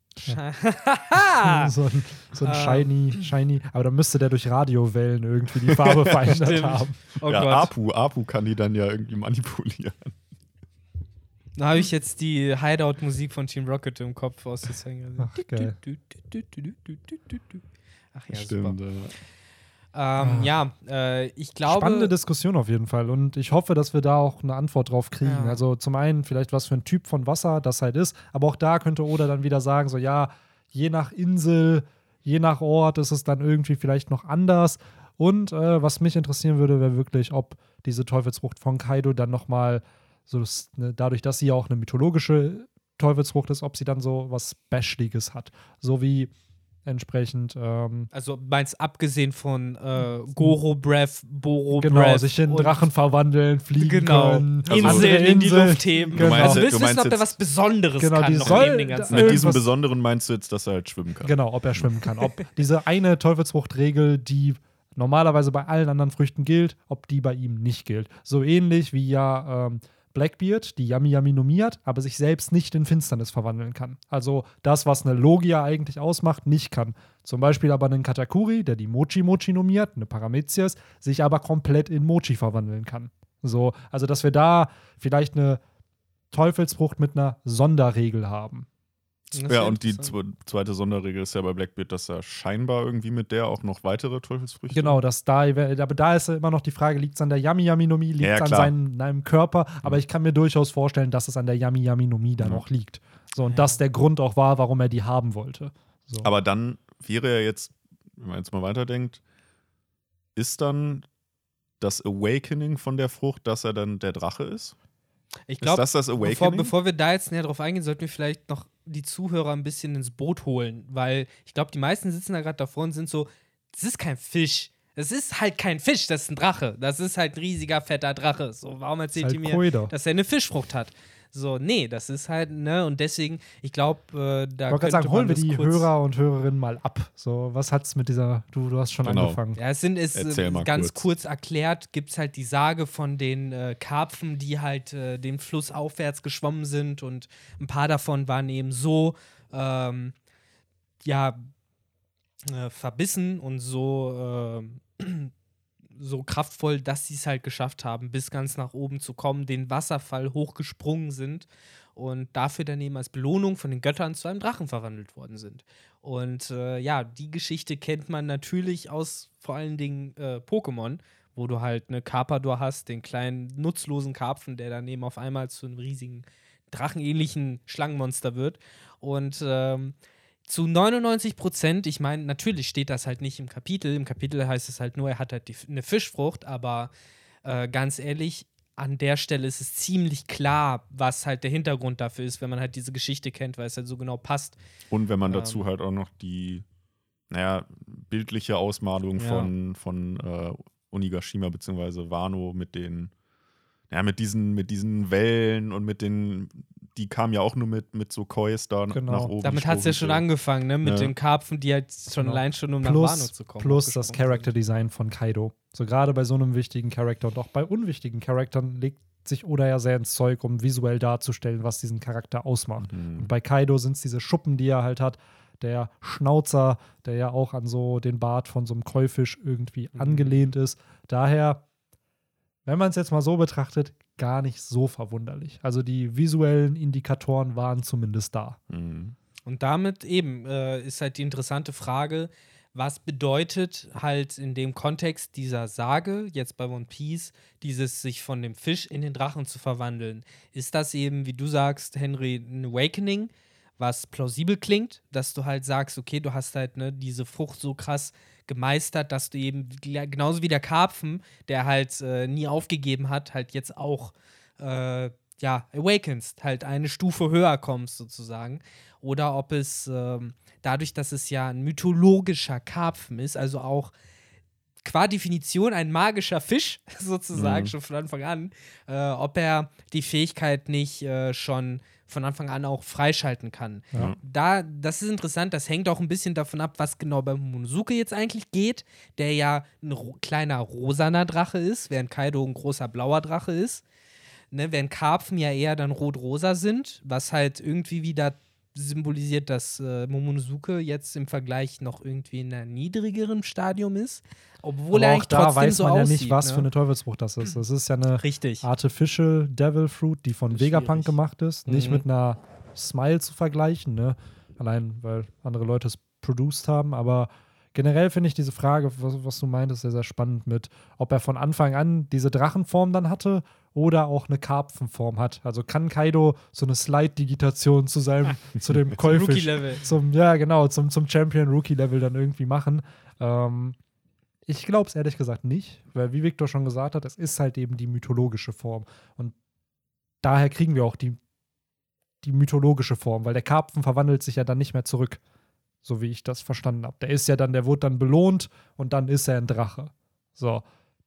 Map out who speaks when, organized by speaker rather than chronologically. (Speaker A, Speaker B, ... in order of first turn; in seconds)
Speaker A: 0.3-1.7, 2.4-3.3, 6.2-7.7, 11.6-17.6, 18.1-18.8, 19.9-22.1, 25.2-25.6, 48.1-52.9, 53.8-59.5, 89.3-90.2, 103.4-103.8, 115.5-135.9, 139.6-150.1, 151.0-151.5, 152.5-155.3, 156.0-179.9, 180.5-186.9, 187.4-194.6, 195.2-195.6, 199.2-199.5, 209.4-214.5, 229.9-230.5, 239.5-273.9, 274.8-293.8, 294.5-306.7, 308.2-308.6, 310.5-311.2, 311.7-312.1, 329.0-329.8
Speaker B: 1.1-7.0, 15.2-15.8, 20.2-20.5, 21.7-46.3, 46.9-48.1, 50.0-50.6, 51.7-56.7, 58.0-59.6, 61.2-85.6, 86.3-88.7, 94.7-106.3, 129.2-129.9, 134.7-139.6, 208.9-209.3, 212.2-231.6, 232.7-238.6, 304.9-333.8, 334.5-339.3, 340.2-341.2, 342.2-345.2, 345.8-350.6
Speaker C: 5.6-6.5, 7.2-10.1, 18.3-19.1, 54.7-55.2, 56.1-57.3, 58.4-61.9, 89.5-95.0, 98.2-98.7, 102.4-102.6, 106.2-109.2, 110.4-111.1, 111.8-114.8, 115.6-116.7, 139.0-139.4, 140.2-141.1, 194.9-196.7, 197.3-203.1, 203.9-210.2, 210.8-211.1, 222.8-223.3, 238.7-239.2, 277.4-277.7